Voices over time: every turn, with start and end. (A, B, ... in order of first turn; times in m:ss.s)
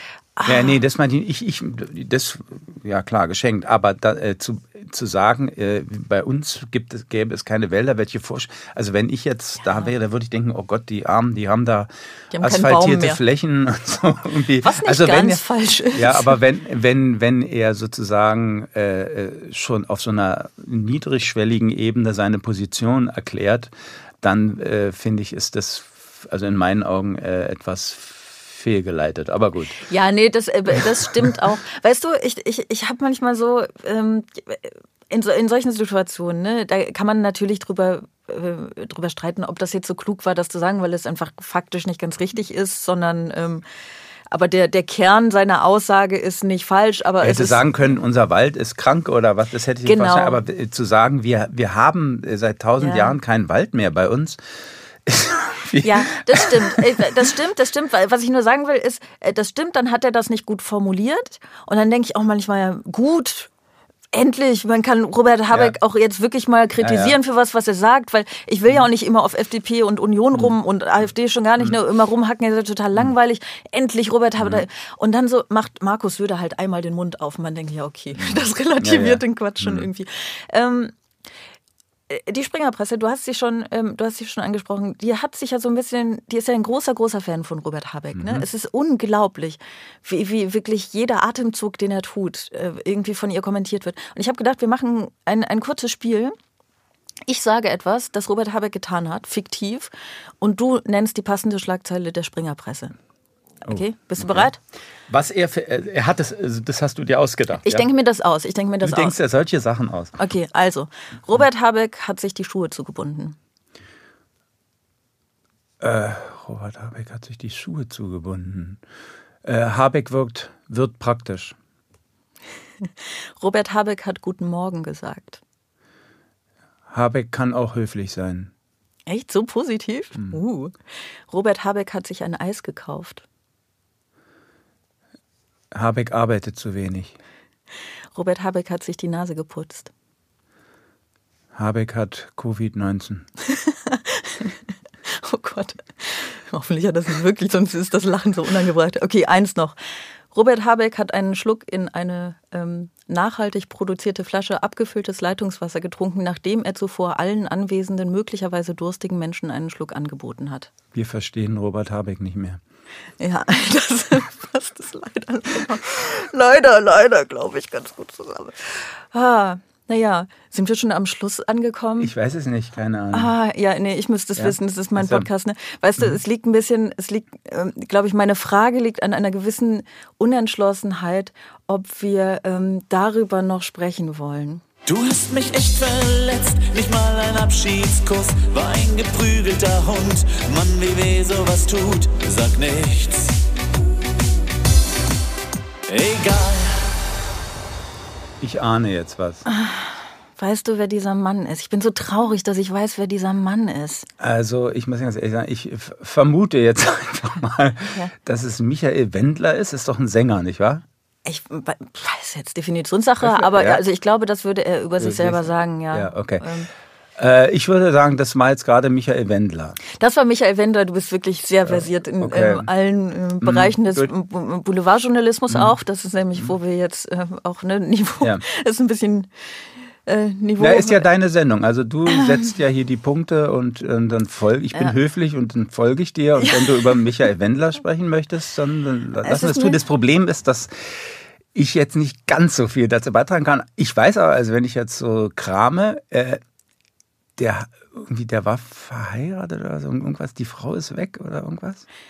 0:00.4-0:00.8 A
0:00.4-0:23.7 B
0:09.6-0:09.9 A
0:12.3-0:13.2 A
0:14.6-0:16.4 A
0:24.2-0:29.8 B
0:29.8-0:43.6 A
0:44.3-0:47.6 A
0:47.2-0:54.4 B
0:49.8-0:50.4 A
0:52.8-0:53.2 A
0:55.0-0:57.0 B
0:55.8-1:03.5 A
1:04.1-1:20.9 A
1:06.8-1:07.2 B
1:18.2-1:19.9 B
1:22.1-1:36.4 A
1:28.1-1:28.4 B
1:37.3-1:42.9 A
1:43.6-1:44.5 B
1:43.6-1:44.6 A
1:45.1-1:47.9 B
1:47.6-1:49.2 A
1:48.8-1:50.2 B
1:50.2-1:53.4 A
1:55.8-1:58.8 B
1:59.4-2:01.6 B
2:02.8-2:05.4 A
2:06.9-2:08.5 B
2:09.1-2:10.8 A
2:11.3-2:13.2 A
2:15.7-2:17.2 B
2:18.1-2:19.9 A
2:21.5-2:23.3 B
2:23.4-2:29.8 A
2:30.3-2:40.7 A
2:40.9-2:42.6 B
2:43.2-2:52.1 A
2:52.0-2:53.3 B
2:53.1-3:04.6 A
2:54.4-2:55.3 B
3:04.8-3:13.4 C
3:15.9-3:16.9 C
3:18.4-3:19.4 B
3:19.4-3:24.1 A
3:24.2-3:30.8 B
3:31.2-3:36.7 A
3:33.2-3:33.8 B
3:35.0-3:36.5 B
3:37.2-3:39.8 B
3:39.9-3:49.3 A
3:41.7-3:42.7 B
3:43.4-3:44.1 B
3:45.5-3:45.8 B
3:50.0-3:51.0 A
3:50.6-4:06.4 B
3:52.0-3:52.5 A
3:56.4-3:57.0 A
3:59.2-3:59.8 A
4:07.4-4:11.8 B